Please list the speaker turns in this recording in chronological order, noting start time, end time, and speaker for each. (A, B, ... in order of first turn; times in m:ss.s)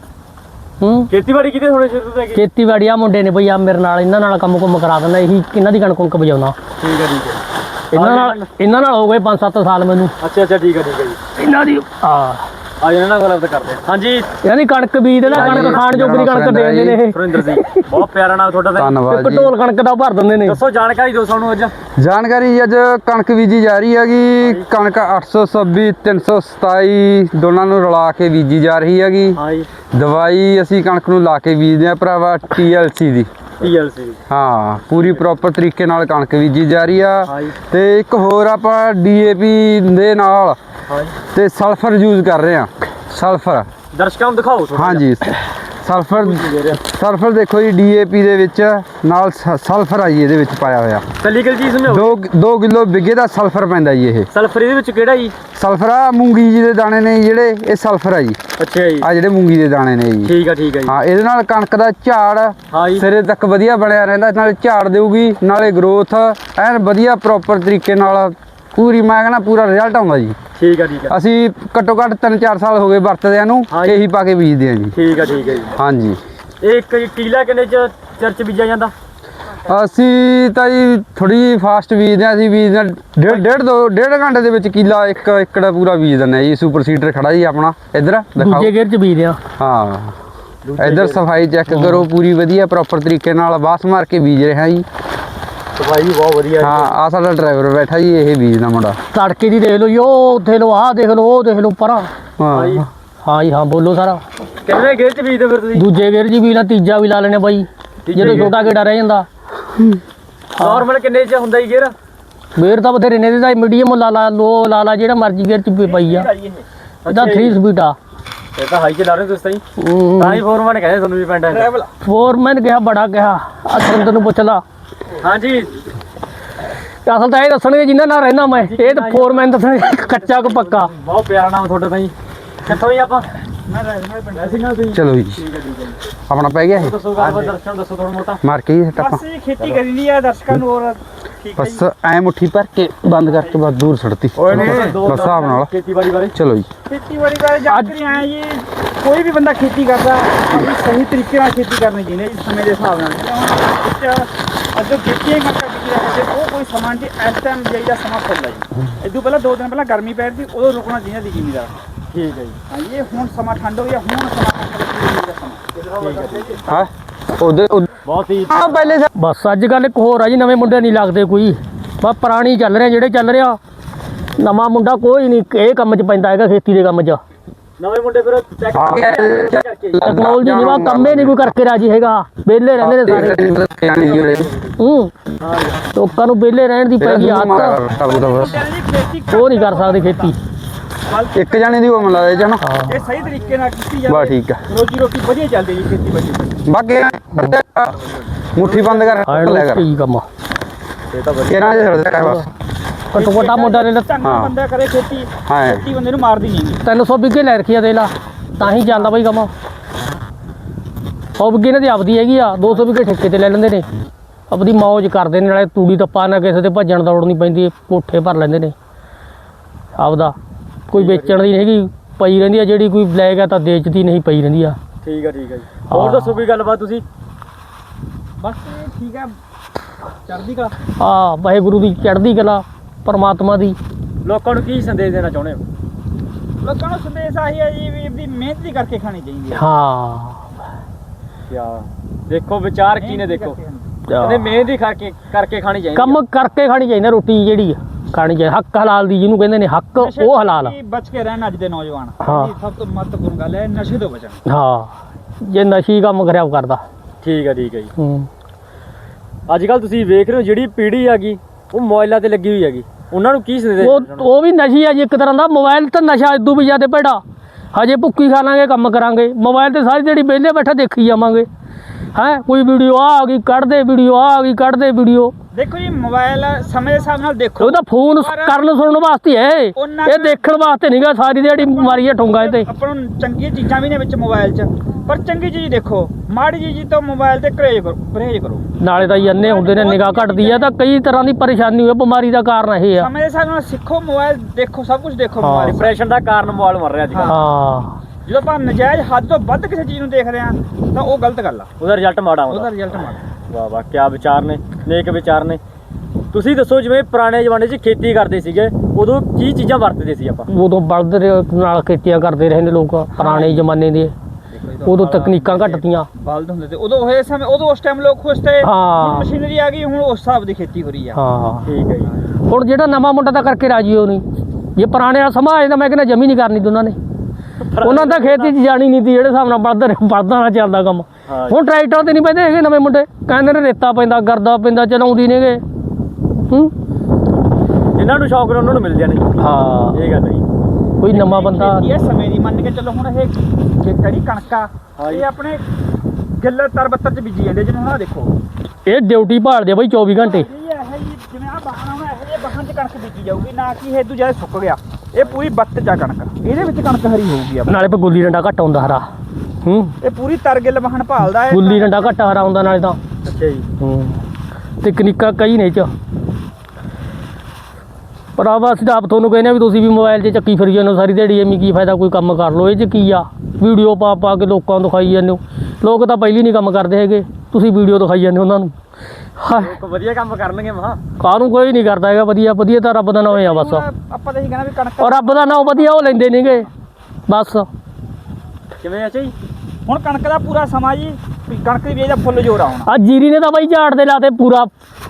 0:00.8-0:01.1 A
0:01.1-0:02.4 B
0:02.3-0:06.6 A
0:06.8-0:07.4 B
0:07.9-0:08.5 B
0:07.9-0:10.1 A
0:10.2-0:11.2 B
0:11.4-0:12.4 A
0:12.8-0:14.3 B
0:14.4-0:17.9 A
0:15.2-0:15.8 B
0:15.3-0:17.0 C
0:17.1-0:19.0 B
0:18.7-0:19.5 C
0:19.1-0:20.6 A
0:20.4-0:21.7 B
0:22.0-0:29.4 C
0:24.4-0:24.7 B
0:29.3-0:29.7 B
0:29.9-0:33.3 C
0:33.6-0:34.2 B
0:34.3-0:40.6 C
0:35.0-0:35.4 B
0:37.2-0:37.6 B
0:40.9-0:41.2 B
0:41.3-0:43.7 C
0:43.9-0:45.1 B
0:44.7-0:51.0 C
0:46.1-0:46.8 B
0:51.2-0:52.2 B
0:51.9-0:54.3 C
0:54.3-0:55.3 B
0:55.5-0:58.4 C
0:58.6-0:59.1 B
0:59.0-1:00.3 C
1:00.2-1:00.9 B
1:00.8-1:10.4 C
1:02.7-1:03.0 B
1:10.6-1:11.2 B
1:11.1-1:15.0 C
1:13.7-1:14.0 B
1:14.9-1:15.7 B
1:15.8-1:16.2 C
1:16.6-1:18.9 B
1:19.6-1:28.7 C
1:28.4-1:29.4 A
1:29.6-1:30.2 C
1:30.6-1:31.2 B
1:30.8-1:34.8 C
1:31.7-1:32.0 A
1:35.7-1:36.9 B
1:36.6-1:39.0 C
1:39.1-1:42.1 A
1:42.4-1:42.9 C
1:42.5-1:42.9 B
1:43.2-1:44.2 A
1:44.6-1:45.8 B
1:45.7-1:49.3 A
1:48.0-1:48.7 B
1:50.6-1:51.9 B
1:52.6-1:56.3 A
1:55.8-1:56.6 D
1:57.0-1:57.6 B
1:57.1-1:58.0 A
1:58.5-1:59.6 B
1:59.8-2:00.4 A
2:00.2-2:01.7 B
2:01.5-2:01.9 D
2:02.0-2:04.6 A
2:05.2-2:05.7 B
2:07.0-2:10.9 A
2:08.6-2:09.5 B
2:10.4-2:13.3 B
2:13.7-2:14.6 D
2:14.3-2:16.0 B
2:14.9-2:15.4 C
2:16.3-2:17.0 C
2:16.7-2:18.4 B
2:17.2-2:17.5 D
2:18.4-2:19.2 C
2:18.9-2:21.8 D
2:21.6-2:25.7 C
2:23.2-2:23.6 D
2:24.4-2:26.3 B
2:24.5-2:25.3 D
2:26.3-2:26.7 C
2:26.8-2:41.7 D
2:27.7-2:28.0 A
2:42.1-2:42.6 B
2:42.7-2:46.5 D
2:45.8-2:46.7 B
2:46.7-2:48.0 C
2:48.0-2:49.0 B
2:48.5-2:49.1 C
2:49.1-2:53.6 A
2:54.4-2:57.2 A
2:57.8-3:00.0 B
2:58.7-3:01.4 C
3:00.0-3:03.4 A
3:02.8-3:04.5 C
3:04.8-3:05.1 A
3:05.4-3:05.8 B
3:05.9-3:07.8 A
3:07.0-3:08.6 C
3:08.0-3:10.3 D
3:09.3-3:10.4 A
3:11.0-3:16.6 D
3:11.3-3:12.6 C
3:12.6-3:13.0 A
3:14.1-3:14.6 C
3:16.6-3:18.0 C
3:18.1-3:19.2 D
3:18.5-3:19.8 C
3:19.2-3:20.2 A
3:21.1-3:21.8 B
3:21.5-3:22.4 C
3:22.2-3:22.4 A
3:23.1-3:24.1 A
3:23.1-3:26.8 D
3:24.2-3:24.6 C
3:25.4-3:25.8 C
3:26.8-3:29.5 A
3:28.6-3:29.0 D
3:31.4-3:33.9 A
3:34.5-3:38.7 A
3:40.0-3:40.3 A
3:40.9-3:44.8 A
3:40.9-3:41.5 B
3:45.0-3:47.0 B
3:45.9-3:46.4 A
3:48.4-3:49.3 D
3:50.3-3:50.7 B
3:51.0-3:53.8 A
3:54.2-3:55.6 B
3:56.6-3:59.7 D
3:59.5-4:00.4 A
4:01.5-4:03.6 B
4:03.0-4:04.0 D
4:04.1-4:04.6 A
4:04.2-4:06.2 B
4:06.0-4:10.7 A
4:10.0-4:14.4 D
4:12.2-4:12.5 A
4:14.5-4:16.8 A
4:17.2-4:17.9 B
4:18.0-4:18.3 A
4:19.5-4:24.3 B
4:23.8-4:27.2 A
4:27.7-4:31.5 A
4:32.1-4:35.3 A
4:35.5-4:38.6 D
4:37.6-4:42.7 A
4:39.8-4:40.4 D
4:41.3-4:50.7 D
4:48.8-4:53.1 A
4:52.9-4:55.9 D
4:55.4-4:55.8 A
4:55.6-4:57.4 B
4:57.1-4:57.4 D
4:57.3-4:57.9 A
4:58.2-5:01.7 D
5:01.8-5:02.7 B
5:02.5-5:03.2 D
5:03.5-5:05.6 B
5:06.3-5:10.5 B
5:10.5-5:14.1 A
5:13.1-5:13.7 D
5:14.5-5:21.2 D
5:14.8-5:16.1 A
5:18.6-5:19.3 A
5:21.1-5:21.7 A
5:21.6-5:22.1 B
5:22.5-5:24.2 A
5:24.8-5:27.0 A
5:27.6-5:28.5 B
5:27.8-5:35.6 A
5:31.3-5:31.6 B
5:37.9-5:39.3 B
5:39.4-5:40.0 A
5:39.9-5:40.4 B
5:41.0-5:41.9 A
5:41.1-5:45.6 D
5:45.0-5:45.3 B
5:46.4-5:48.3 D
5:48.8-5:50.5 A
5:50.2-5:57.7 D
5:57.7-5:59.0 A
5:59.6-5:59.9 A
6:00.0-6:02.2 D
6:01.4-6:03.0 A
6:03.2-6:03.6 B
6:03.8-6:04.2 A
6:04.8-6:05.9 A
6:08.4-6:18.7 A
6:19.4-6:19.8 A
6:19.5-6:21.0 B
6:21.2-6:23.8 A
6:23.3-6:26.1 D
6:25.0-6:26.7 A
6:27.3-6:27.7 A
6:28.8-6:29.3 B
6:29.8-6:32.9 D
6:32.8-6:34.7 A